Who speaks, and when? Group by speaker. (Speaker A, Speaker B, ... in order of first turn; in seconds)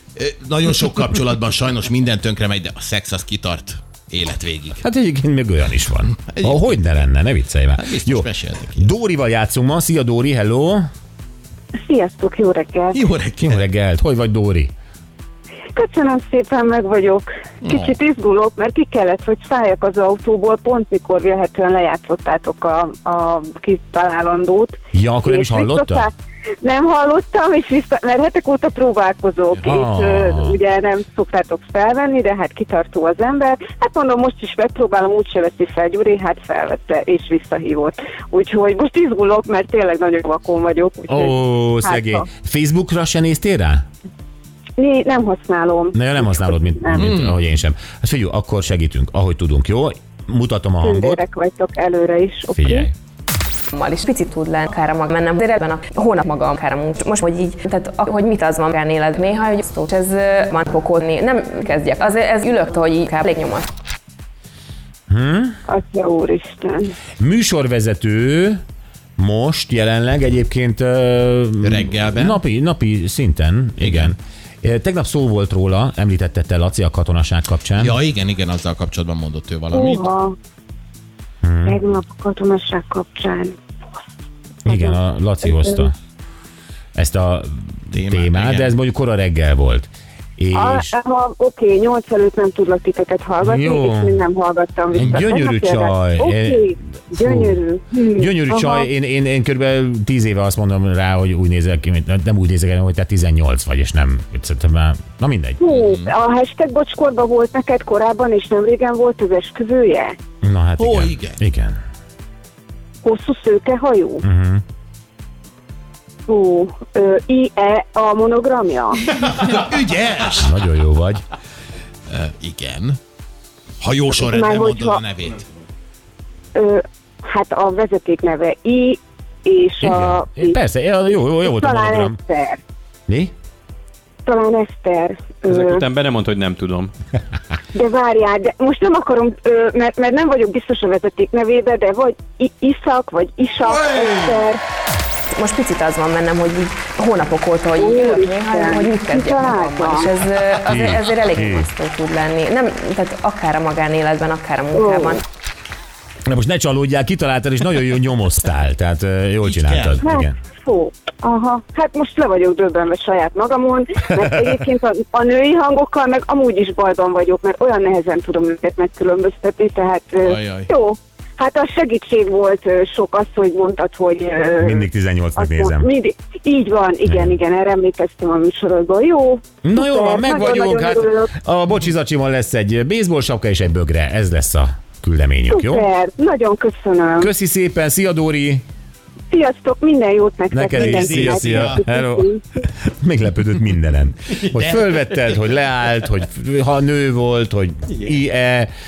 Speaker A: 0.2-4.8, 6.2-7.0, 7.8-8.9, 12.9-13.6, 17.6-18.0, 46.9-47.4, 71.6-72.4, 73.8-74.1, 77.8-80.0, 87.9-88.7, 105.7-106.1, 110.8-111.4, 119.2-120.5, 122.1-123.0, 123.8-125.5, 159.4-160.0, 170.2-170.7, 190.8-191.8
Speaker B: 4.8-10.8, 13.4-14.7, 24.9-26.1, 29.6-30.6, 41.1-43.9, 45.9-51.2, 52.5-52.9, 65.1-65.6, 67.2-68.6, 69.2-77.9, 81.4-81.8, 84.7-85.9, 87.0-90.9, 93.4-94.2, 94.9-97.6, 98.2-105.6, 110.4-111.8, 114.2-114.6, 120.4-121.2, 129.8-132.2, 150.7-151.7, 156.3-160.4, 174.6-175.9, 177.1-177.4, 179.6-185.9, 187.2-188.6, 190.5-198.7
Speaker C: 11.8-13.0, 15.8-26.1, 26.6-42.2, 44.8-47.1, 50.8-52.9, 65.7-67.0, 79.7-80.3, 81.7-83.6, 84.7-85.9, 90.5-98.9, 105.6-110.2, 113.0-114.2, 116.3-119.0, 124.2-125.0, 126.5-130.6, 131.4-132.6, 134.3-135.8, 137.7-144.6, 147.8-150.1, 154.7-155.2, 160.0-174.9, 175.4-181.3, 185.5-187.3, 189.3-192.4
Speaker D: 53.7-63.7, 145.3-155.2
Speaker E: 135.5-136.9, 194.5-195.0, 197.9-198.2